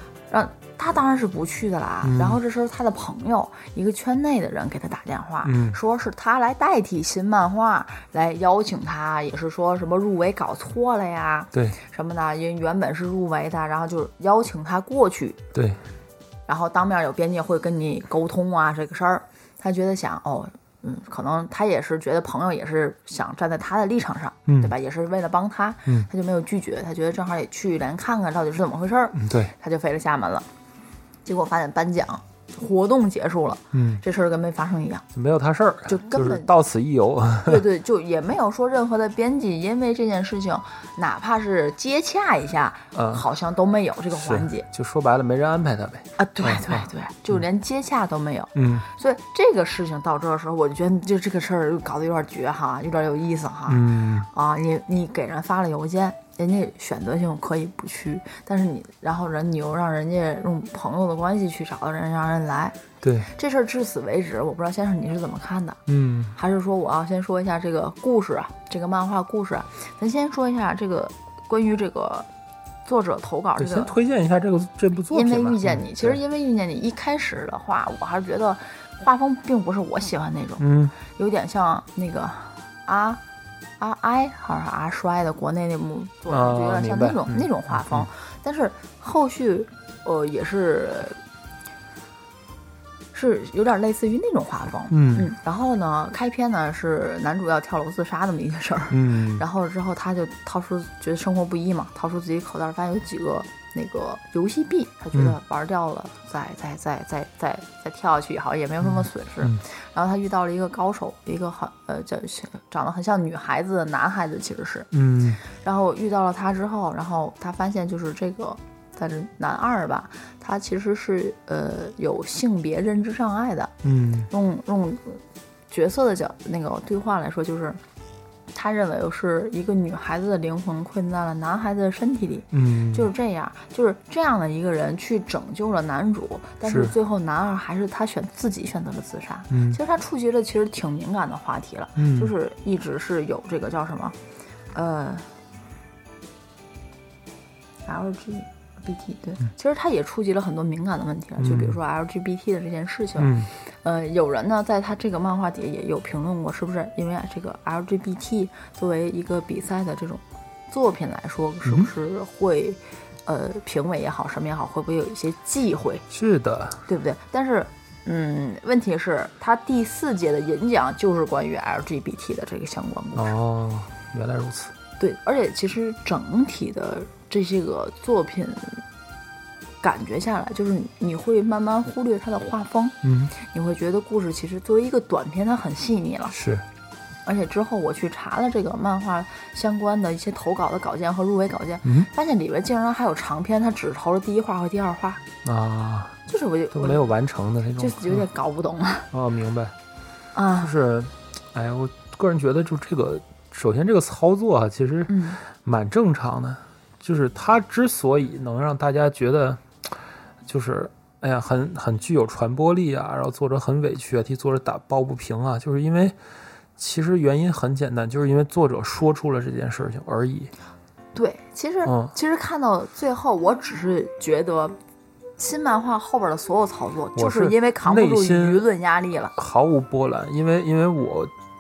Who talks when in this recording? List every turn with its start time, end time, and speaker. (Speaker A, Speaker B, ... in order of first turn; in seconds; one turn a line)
Speaker A: 0.3-15.4
Speaker B: 2.0-2.4
Speaker B: 5.4-5.8
Speaker B: 15.5-15.8
Speaker A: 16.5-30.5
Speaker B: 24.5-24.7
Speaker B: 29.2-29.5
Speaker A: 31.2-35.0
Speaker B: 33.7-34.0
Speaker B: 35.1-37.6
Speaker A: 35.9-36.5
Speaker A: 37.5-44.7
Speaker B: 42.9-43.2
Speaker B: 44.1-46.9
Speaker A: 46.2-65.8
Speaker B: 48.5-48.9
Speaker B: 53.7-54.3
Speaker B: 63.0-63.3
Speaker B: 65.9-66.3
Speaker A: 66.3-72.3
Speaker A: 72.8-74.0
Speaker B: 73.6-76.2
Speaker A: 75.1-83.2
Speaker B: 80.6-81.0
Speaker A: 83.8-91.2
Speaker B: 86.3-88.1
Speaker A: 93.1-114.9
Speaker B: 94.9-95.3
Speaker B: 98.9-99.4
Speaker B: 109.0-109.6
Speaker B: 114.9-115.4
Speaker A: 115.4-123.8
Speaker B: 123.8-124.3
Speaker A: 124.3-127.8
Speaker A: 128.5-144.2
Speaker B: 132.5-133.1
Speaker B: 136.7-136.9
Speaker B: 139.5-139.8
Speaker B: 142.0-142.3
Speaker A: 144.7-145.3
Speaker A: 147.9-166.1
Speaker B: 151.4-151.8
Speaker B: 153.2-153.5
Speaker B: 166.1-166.8
Speaker A: 166.9-173.3
Speaker B: 173.2-174.7
Speaker A: 175.0-178.8
Speaker A: 179.8-186.4
Speaker B: 183.0-183.3
Speaker B: 186.3-186.7
Speaker A: 187.3-195.2
Speaker B: 195.4-196.2
Speaker A: 196.3-197.1
Speaker B: 196.7-198.2
Speaker A: 197.8-199.1
Speaker B: 199.1-199.8
Speaker A: 200.3-200.8
Speaker B: 200.6-209.6
Speaker A: 205.1-205.4
Speaker B: 210.4-216.2
Speaker B: 216.8-220.5
Speaker A: 221.2-224.8
Speaker B: 221.9-222.1
Speaker A: 225.4-229.3
Speaker B: 227.2-228.7
Speaker B: 229.4-231.3